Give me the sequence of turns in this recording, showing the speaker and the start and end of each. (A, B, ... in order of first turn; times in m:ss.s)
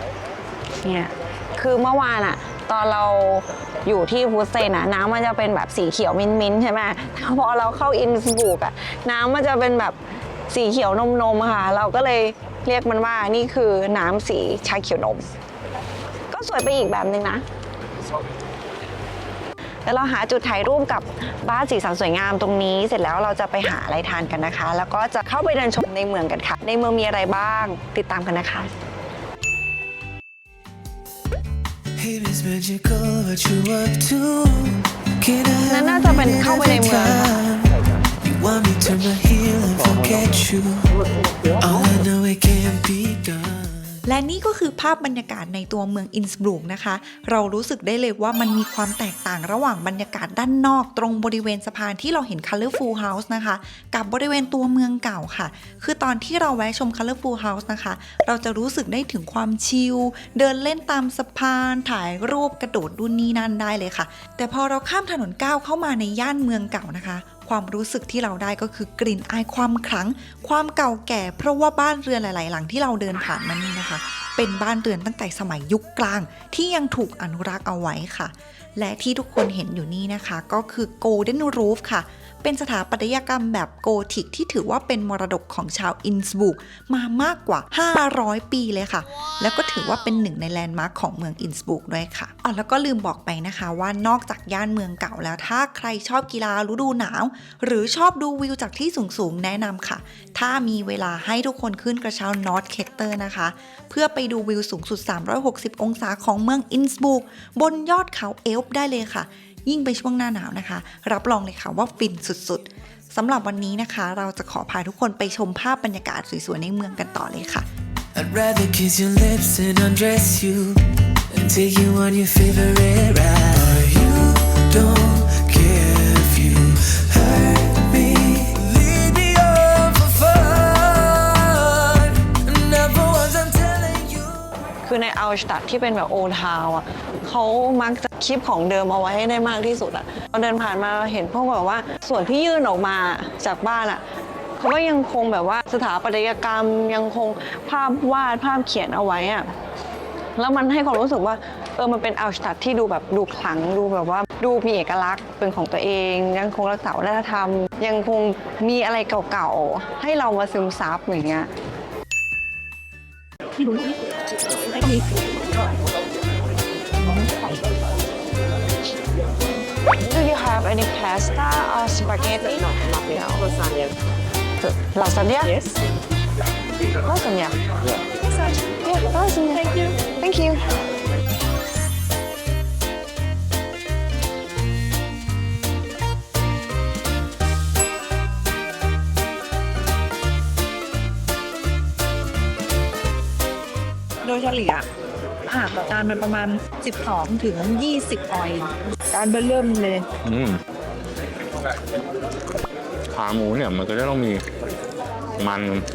0:00.8-0:10.0 A
0:10.5-0:15.3 A
0:16.3-0:17.4 A
0:19.9-0:28.7 A
0:32.0-0:41.0 B
0:35.6-0:37.5 A
0:41.6-0:44.1 B
0:44.0-1:57.7 C
1:58.2-2:14.7 B
2:14.9-2:24.0 A
2:24.6-2:29.5 A
2:30.4-2:41.5 A
2:43.6-2:44.0 D
2:47.0-2:47.4 D
2:50.0-2:53.8 A
2:54.6-2:55.7 A
2:57.0-2:57.6 A
2:58.3-3:00.6 A
3:14.2-3:14.9 D
3:15.5-3:20.1 D
3:20.2-3:20.6 E
3:23.1-3:24.4 E
3:25.4-3:25.9 E